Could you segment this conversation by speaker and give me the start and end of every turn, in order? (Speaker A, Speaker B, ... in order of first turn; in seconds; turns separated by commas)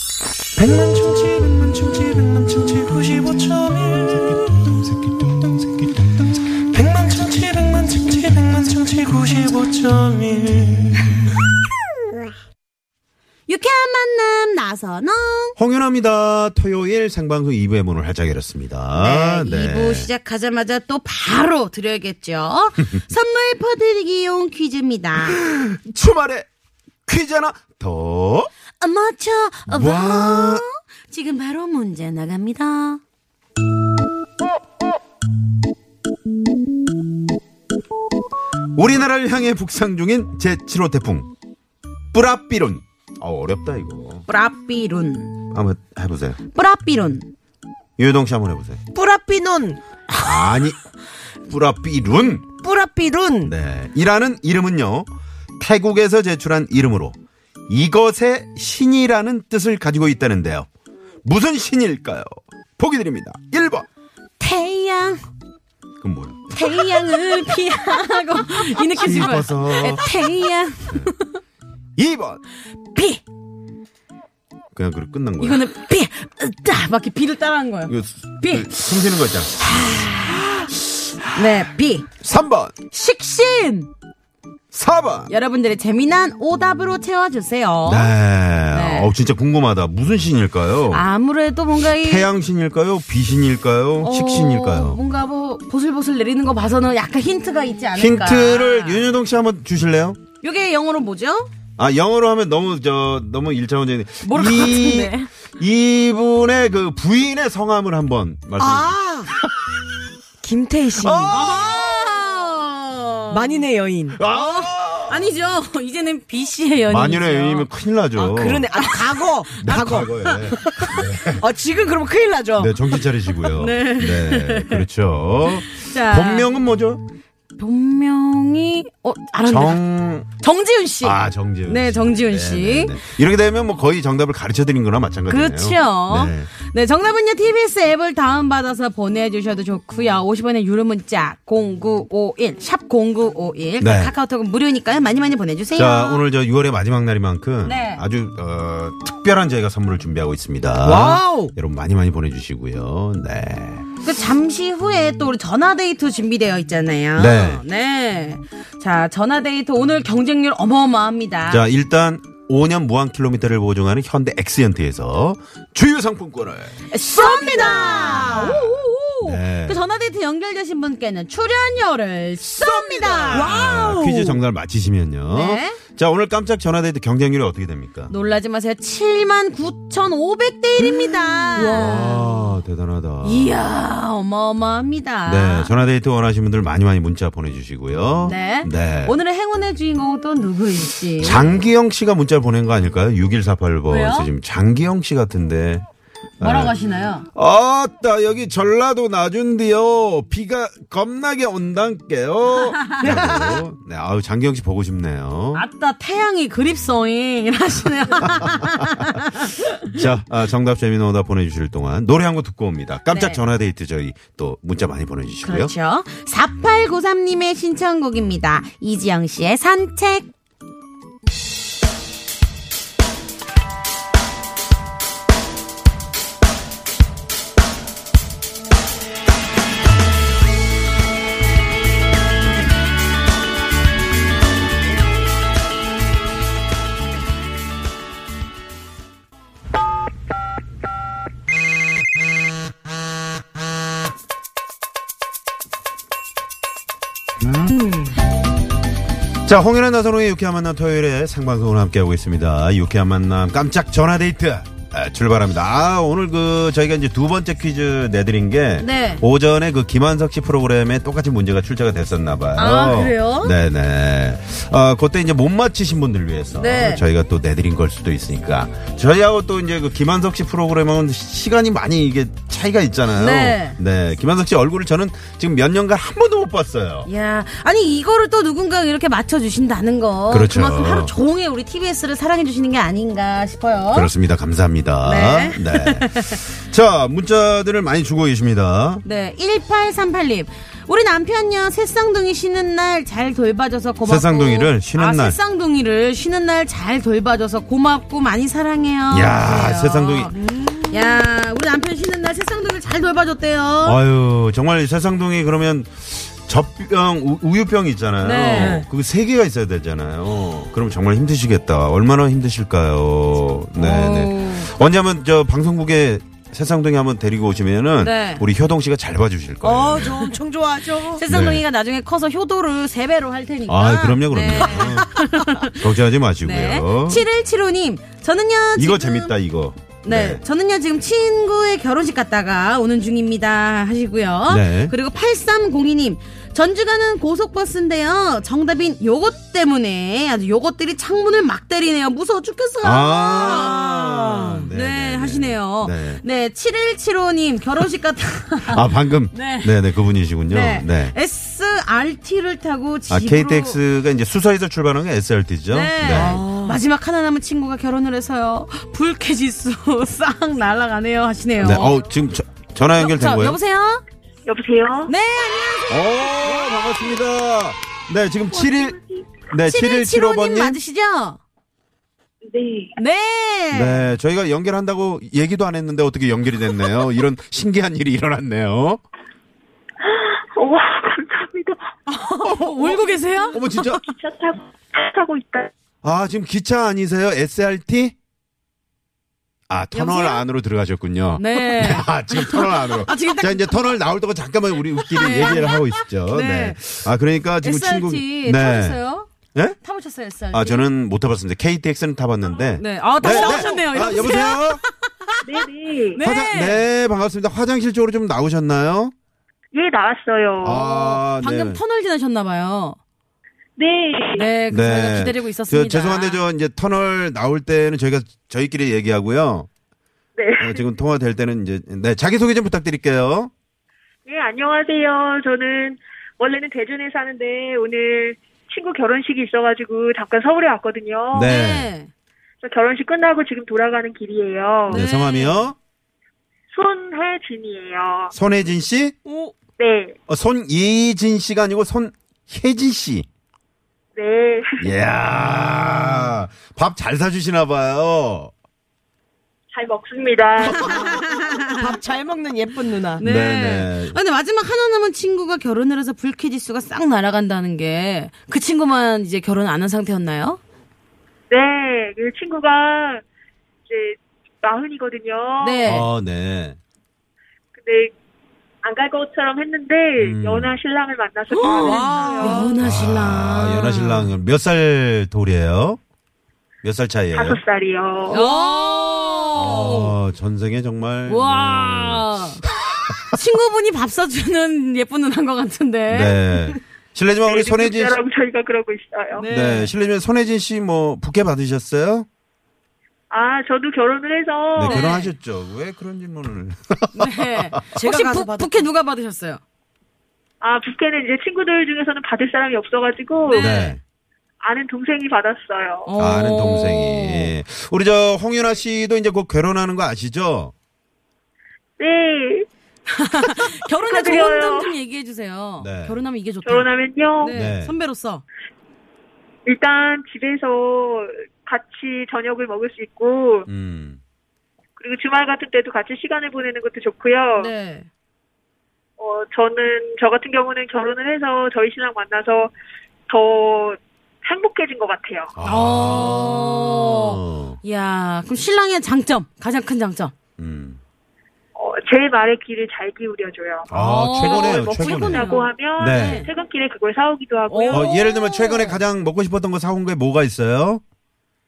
Speaker A: 0.6-4.7, Speaker A: 6.7-10.9, Speaker B: 13.5-15.6, Speaker C: 15.6-20.1, Speaker B: 18.9-25.4, Speaker C: 25.2-26.5, Speaker C: 27.1-28.5, Speaker B: 28.8-33.0, Speaker C: 29.7-30.7, Speaker C: 38.8-41.3, Speaker C: 42.1-44.3, Speaker B: 44.3-45.4, Speaker C: 45.5-46.4, Speaker B: 46.5-47.3, Speaker C: 48.0-48.8, Speaker D: 49.0-49.8, Speaker C: 50.2-50.8, Speaker C: 51.5-52.5, Speaker D: 52.6-53.5, Speaker C: 53.4-57.2, Speaker C: 57.7-60.7, Speaker C: 61.2-63.9, Speaker B: 64.4-65.2, Speaker C: 66.0-66.4, Speaker B: 66.5-71.4, Speaker C: 68.6-70.1, Speaker C: 72.0-72.4, Speaker B: 72.9-73.2, Speaker C: 74.7-75.6, Speaker B: 75.4-78.8, Speaker C: 77.9-80.0, Speaker B: 79.6-80.8, Speaker B: 81.3-82.1, Speaker C: 82.2-82.8, Speaker B: 82.9-83.9, Speaker C: 84.7-85.3, Speaker B: 85.3-88.1, Speaker C: 87.8-91.0, Speaker B: 88.7-89.1, Speaker B: 90.9-92.3, Speaker C: 92.0-95.0, Speaker B: 94.0-99.1, Speaker C: 98.0-100.2, Speaker B: 100.4-101.5, Speaker C: 101.8-109.0, Speaker B: 104.2-105.3, Speaker D: 108.6-109.3, Speaker D: 110.4-111.5, Speaker C: 111.0-112.3, Speaker B: 111.3-113.6, Speaker D: 113.3-114.2, Speaker C: 114.1-115.3, Speaker B: 114.3-117.7, Speaker C: 116.9-118.8, Speaker D: 118.2-122.8, Speaker B: 118.8-119.0, Speaker C: 119.6-121.5, Speaker C: 122.6-127.0, Speaker B: 123.6-124.9, Speaker B: 125.7-126.5, Speaker B: 127.6-129.8, Speaker C: 129.4-130.3, Speaker B: 130.4-133.0, Speaker C: 131.0-136.5, Speaker B: 135.3-146.2, Speaker C: 143.8-144.2, Speaker C: 145.7-153.8, Speaker B: 147.6-148.0, Speaker D: 150.8-151.5, Speaker B: 154.0-161.7, Speaker C: 157.2-157.6, Speaker C: 161.5-166.8, Speaker B: 166.9-174.0, Speaker D: 167.1-168.7, Speaker C: 167.9-168.6, Speaker C: 169.2-169.8, Speaker C: 172.4-178.1, Speaker D: 173.3-174.4, Speaker B: 175.3-175.8, Speaker B: 178.1-182.2, Speaker C: 181.1-183.6, Speaker D: 181.6-182.1, Speaker B: 183.2-185.7, Speaker C: 185.3-189.2, Speaker B: 188.2-191.6, Speaker C: 191.2-195.8, Speaker B: 193.9-194.3, Speaker C: 196.4-196.8, Speaker B: 196.4-197.3, Speaker C: 197.3-205.7, Speaker B: 202.8-203.2, Speaker D: 203.0-203.6, Speaker B: 205.5-209.7, Speaker C: 208.2-209.1, Speaker C: 209.9-215.7, Speaker B: 213.1-213.4, Speaker B: 215.4-220.3, Speaker C: 247.4-247.7, Speaker C: 249.4-277.1, Speaker B: 258.8-259.2, Speaker B: 262.6-263.6, Speaker B: 266.6-267.0, Speaker B: 273.1-273.8, Speaker B: 277.1-284.1, Speaker C: 280.3-281.1, Speaker C: 283.9-289.0, Speaker B: 285.0-286.4, Speaker B: 289.0-304.0, Speaker C: 294.1-295.4, Speaker C: 299.1-300.3, Speaker D: 300.4-301.0, Speaker C: 303.8-320.3, Speaker B: 308.2-308.8, Speaker D: 308.5-308.9, Speaker B: 313.8-314.7, Speaker B: 318.0-318.4, Speaker D: 319.6-321.2, Speaker B: 321.1-325.9, Speaker C: 321.3-321.6, Speaker C: 323.7-325.2, Speaker C: 325.7-327.3, Speaker B: 326.4-329.3, Speaker C: 328.8-330.4, Speaker B: 330.0-343.9, Speaker C: 334.5-334.9, Speaker C: 342.8-346.2, Speaker D: 343.6-344.5, Speaker B: 344.7-349.7, Speaker C: 348.6-351.1, Speaker B: 350.5-353.8, Speaker C: 353.1-356.4, Speaker B: 355.7-362.0, Speaker D: 356.1-356.8, Speaker C: 361.6-363.6, Speaker B: 362.9-364.0, Speaker E: 364.5-365.1, Speaker B: 365.1-366.8, Speaker C: 365.9-369.0, Speaker E: 368.5-369.3, Speaker C: 369.5-370.8, Speaker B: 369.6-371.4, Speaker E: 372.5-372.9, Speaker B: 373.0-374.1, Speaker C: 373.7-379.0, Speaker E: 380.0-381.8, Speaker B: 382.1-383.6, Speaker C: 382.4-384.0, Speaker E: 383.9-385.7, Speaker C: 386.0-388.1, Speaker C: 389.7-399.0, Speaker B: 389.9-390.4, Speaker B: 391.4-394.0, Speaker B: 395.0-396.8, Speaker B: 397.6-399.3, Speaker B: 399.8-400.9, Speaker C: 400.5-404.8, Speaker E: 402.5-402.7, Speaker B: 402.8-405.4, Speaker E: 403.2-403.8, Speaker E: 405.4-406.2, Speaker B: 406.1-406.8, Speaker C: 406.2-409.1, Speaker E: 409.7-410.8, Speaker C: 410.6-411.8, Speaker B: 410.7-413.0, Speaker E: 413.8-414.5, Speaker B: 414.3-416.4, Speaker C: 414.7-419.7, Speaker E: 420.4-420.8, Speaker C: 420.6-423.5, Speaker E: 424.3-431.6, Speaker C: 431.3-431.9, Speaker B: 431.4-432.1, Speaker E: 432.6-435.0, Speaker C: 434.9-435.8, Speaker B: 434.9-435.7, Speaker E: 436.7-438.3, Speaker C: 438.3-439.1, Speaker D: 439.3-439.5, Speaker E: 439.8-440.1, Speaker C: 440.3-443.3, Speaker E: 444.1-444.9, Speaker C: 444.8-448.5, Speaker E: 449.7-451.3, Speaker B: 450.8-451.9, Speaker D: 451.6-453.2, Speaker B: 453.2-460.6, Speaker C: 453.2-454.2, Speaker E: 461.5-463.2, Speaker E: 463.9-466.0, Speaker B: 465.6-466.1, Speaker C: 465.8-466.8, Speaker E: 467.8-468.1, Speaker E: 468.8-472.8, Speaker C: 470.2-470.7, Speaker B: 471.5-474.3, Speaker D: 471.8-472.8, Speaker C: 472.8-476.0, Speaker C: 476.8-477.6, Speaker E: 477.3-478.4, Speaker B: 478.3-480.1, Speaker C: 479.6-483.2, Speaker B: 481.3-482.6, Speaker B: 483.2-486.8, Speaker C: 486.1-488.2, Speaker E: 487.4-489.5, Speaker B: 489.4-489.9, Speaker C: 489.5-492.3, Speaker E: 493.3-495.2, Speaker C: 494.8-497.7, Speaker B: 494.8-495.3, Speaker B: 497.1-499.6, Speaker D: 498.0-498.9, Speaker E: 500.6-503.7, Speaker B: 503.5-504.0, Speaker C: 503.5-504.0, Speaker E: 504.6-506.1, Speaker B: 506.1-507.5, Speaker C: 506.2-510.7, Speaker E: 512.0-512.7, Speaker B: 513.1-516.9, Speaker E: 514.0-515.0, Speaker C: 515.8-516.2, Speaker E: 516.6-517.6, Speaker B: 517.4-518.4, Speaker C: 517.5-518.0, Speaker E: 519.7-523.7, Speaker C: 523.7-524.2, Speaker E: 525.0-527.7, Speaker B: 527.6-528.1, Speaker E: 529.2-532.7, Speaker E: 533.3-535.5, Speaker C: 535.6-537.8, Speaker B: 535.6-540.3, Speaker C: 540.6-541.0, Speaker E: 541.8-548.5, Speaker C: 543.9-546.4, Speaker B: 543.9-546.5, Speaker B: 547.7-549.0, Speaker C: 547.9-551.0